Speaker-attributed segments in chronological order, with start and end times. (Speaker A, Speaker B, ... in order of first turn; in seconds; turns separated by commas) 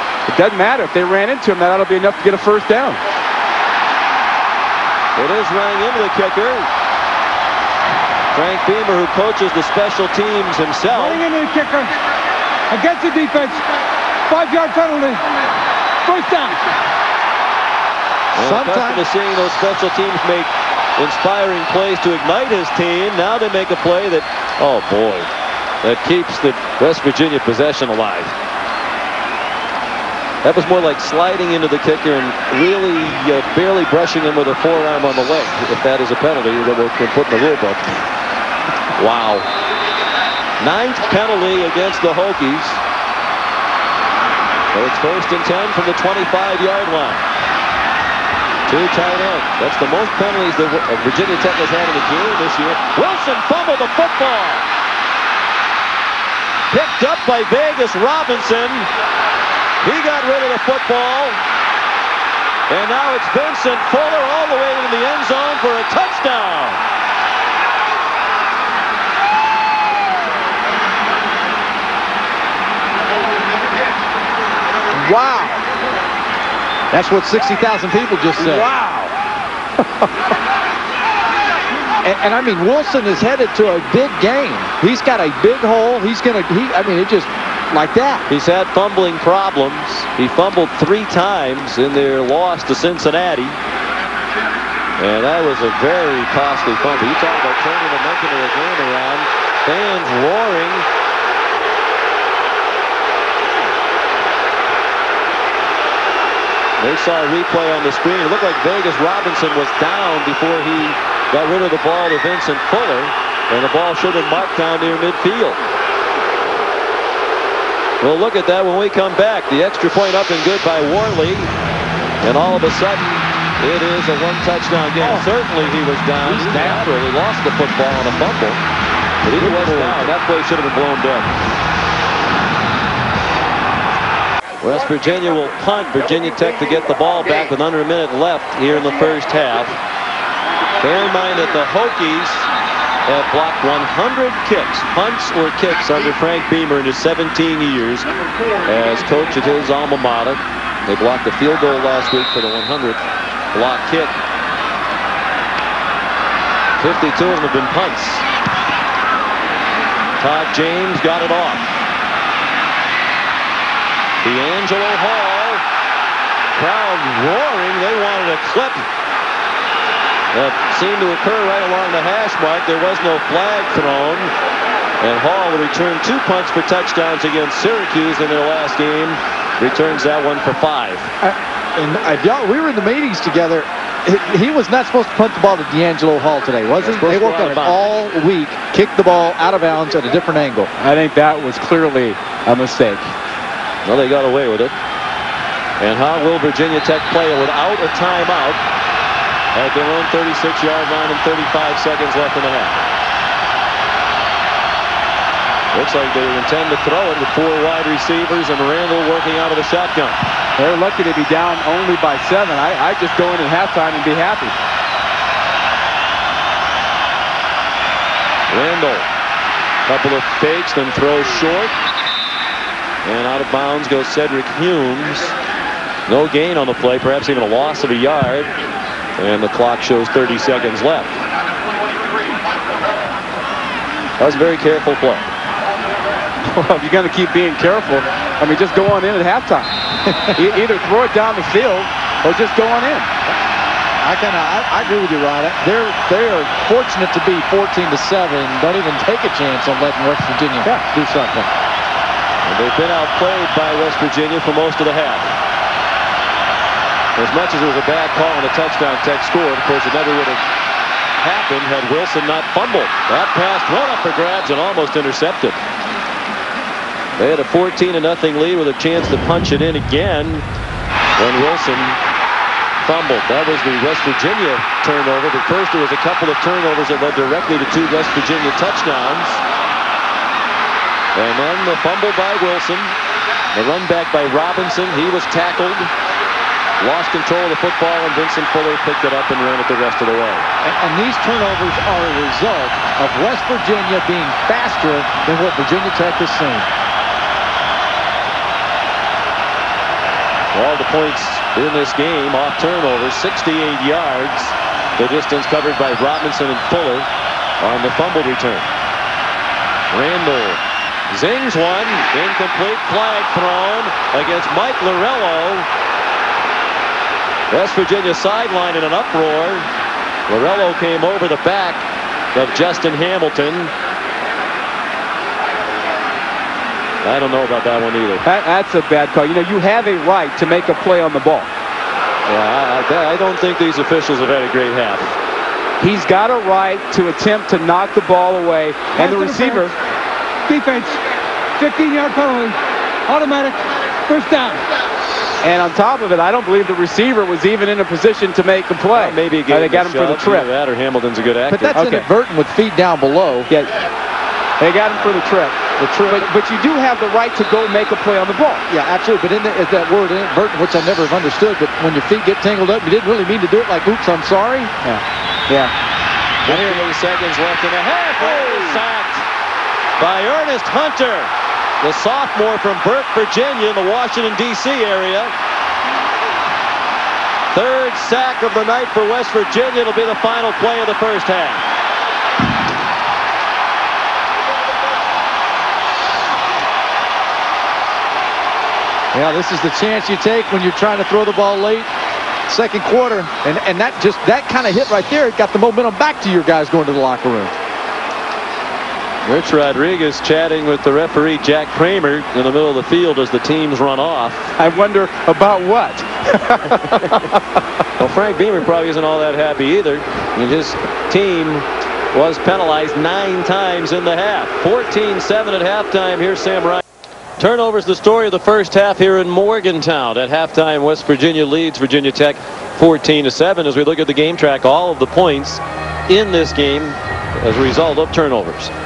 Speaker A: 0.3-3.0, Speaker B: 5.1-6.7, Speaker B: 8.3-11.2, Speaker C: 10.9-11.9, Speaker C: 12.7-13.7, Speaker C: 14.3-15.2, Speaker C: 16.0-16.6, Speaker B: 18.3-25.3, Speaker D: 18.4-19.0, Speaker B: 25.8-28.3, Speaker B: 30.4-37.9, Speaker B: 39.0-39.5, Speaker B: 40.6-42.8, Speaker B: 44.7-47.2, Speaker B: 48.7-54.7, Speaker B: 56.7-58.9, Speaker B: 59.8-61.4, Speaker B: 62.7-66.8, Speaker D: 74.9-75.6, Speaker D: 76.9-78.7, Speaker C: 78.8-79.1, Speaker D: 82.0-88.2, Speaker B: 88.3-93.6, Speaker B: 95.0-100.8, Speaker B: 106.8-115.6, Speaker B: 118.0-121.5, Speaker B: 122.2-128.6, Speaker D: 125.0-125.3, Speaker D: 126.2-126.9, Speaker B: 129.2-131.3, Speaker D: 129.4-130.0, Speaker B: 134.6-139.8, Speaker B: 140.8-142.5, Speaker B: 143.1-148.1, Speaker B: 148.7-154.1, Speaker B: 156.8-158.2, Speaker B: 160.2-161.7, Speaker B: 164.2-165.6, Speaker B: 166.5-168.8, Speaker B: 170.3-174.3, Speaker B: 175.0-181.1, Speaker D: 181.2-190.7, Speaker B: 186.8-187.8, Speaker A: 190.8-193.1, Speaker B: 193.8-194.7, Speaker B: 195.8-198.6, Speaker B: 199.5-202.8, Speaker B: 205.7-210.2, Speaker A: 210.6-214.5, Speaker B: 218.5-219.1, Speaker B: 219.8-221.7, Speaker B: 223.0-225.3, Speaker B: 226.1-228.5, Speaker B: 229.2-231.2, Speaker B: 234.2-235.3, Speaker A: 236.4-239.7, Speaker D: 240.1-240.4, Speaker A: 240.3-243.1, Speaker D: 244.0-251.5, Speaker B: 252.4-255.3, Speaker B: 257.1-260.4, Speaker B: 261.2-265.6, Speaker B: 267.1-270.4, Speaker B: 271.1-272.0, Speaker B: 272.8-279.4, Speaker B: 281.1-282.9, Speaker B: 283.5-285.9, Speaker B: 286.8-290.4, Speaker D: 290.6-296.7, Speaker B: 300.5-307.1, Speaker B: 307.6-308.7, Speaker B: 309.9-315.7, Speaker B: 317.5-319.7, Speaker B: 320.3-323.7, Speaker B: 327.0-328.2, Speaker A: 328.2-331.5, Speaker B: 332.3-335.1, Speaker A: 335.8-339.7, Speaker C: 338.9-339.7, Speaker C: 340.4-341.0, Speaker C: 341.6-344.6, Speaker A: 345.4-350.5, Speaker B: 348.9-351.8, Speaker D: 351.5-353.5, Speaker A: 351.7-352.1, Speaker A: 354.6-358.6, Speaker D: 355.8-356.3, Speaker D: 358.7-364.7, Speaker A: 364.8-365.7, Speaker B: 366.4-369.2, Speaker D: 366.4-366.9, Speaker B: 370.0-375.3, Speaker B: 377.5-381.6, Speaker D: 389.1-391.9, Speaker D: 392.5-397.5, Speaker B: 399.2-404.5, Speaker A: 404.6-407.1, Speaker B: 408.0-416.8, Speaker B: 417.4-428.7